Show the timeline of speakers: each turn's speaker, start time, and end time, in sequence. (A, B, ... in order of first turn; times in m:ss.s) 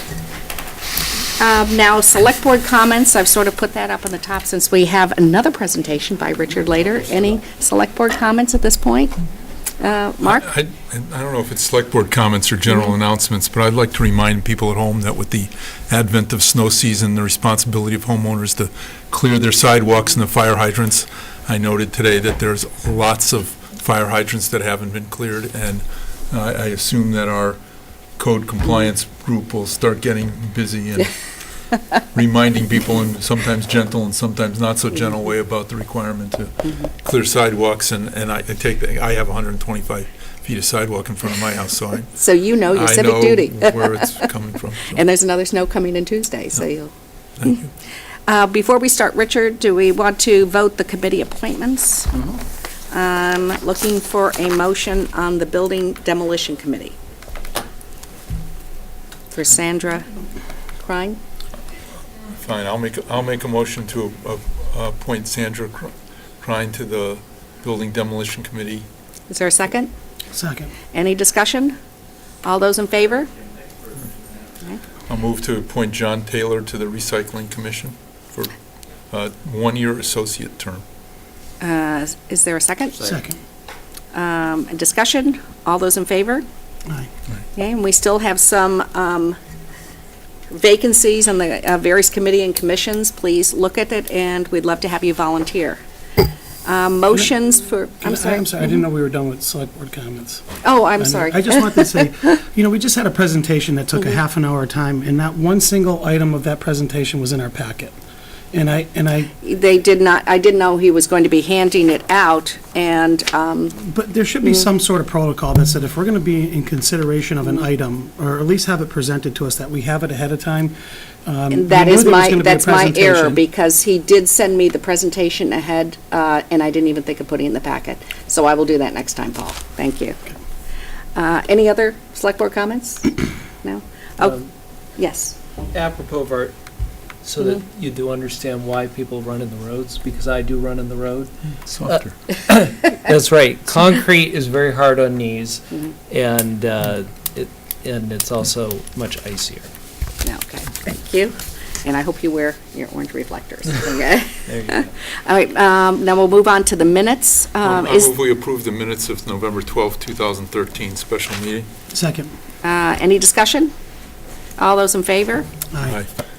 0:01.4-0:09.2 A
0:09.8-0:10.5 A
0:10.3-0:27.6 B
0:28.2-0:31.1 B
0:32.1-0:42.2 B
0:42.1-0:44.3 A
0:42.7-0:45.0 B
0:44.9-0:46.9 A
0:47.4-0:47.7 B
0:48.3-0:52.1 A
0:52.9-0:57.0 A
0:59.3-1:00.1 A
1:00.8-1:01.2 A
1:02.4-1:08.9 B
1:09.3-1:09.9 A
1:10.3-1:10.7 C
1:10.9-1:11.8 A
1:12.4-1:13.3 A
1:15.1-1:18.5 B
1:19.1-1:20.8 B
1:21.6-1:23.0 A
1:23.0-1:23.4 C
1:24.1-1:26.4 A
1:27.6-1:29.4 A
1:30.5-1:35.8 A
1:36.6-1:38.7 A
1:38.0-1:40.4 C
1:40.6-1:42.3 A
1:41.0-1:47.9 C
1:48.5-1:49.3 C
1:49.4-1:53.8 A
1:53.8-2:00.8 C
2:01.2-2:03.4 C
2:01.5-2:10.2 A
2:11.2-2:14.4 A
2:14.2-2:14.5 D
2:15.0-2:15.4 A
2:15.7-2:16.5 D
2:17.2-2:29.7 D
2:21.7-2:22.1 B
2:30.2-2:38.1 A
2:34.5-2:34.9 D
2:37.6-2:41.7 B
2:41.9-2:42.3 C
2:42.6-2:43.7 A
2:44.6-2:45.5 A
2:45.7-2:46.0 C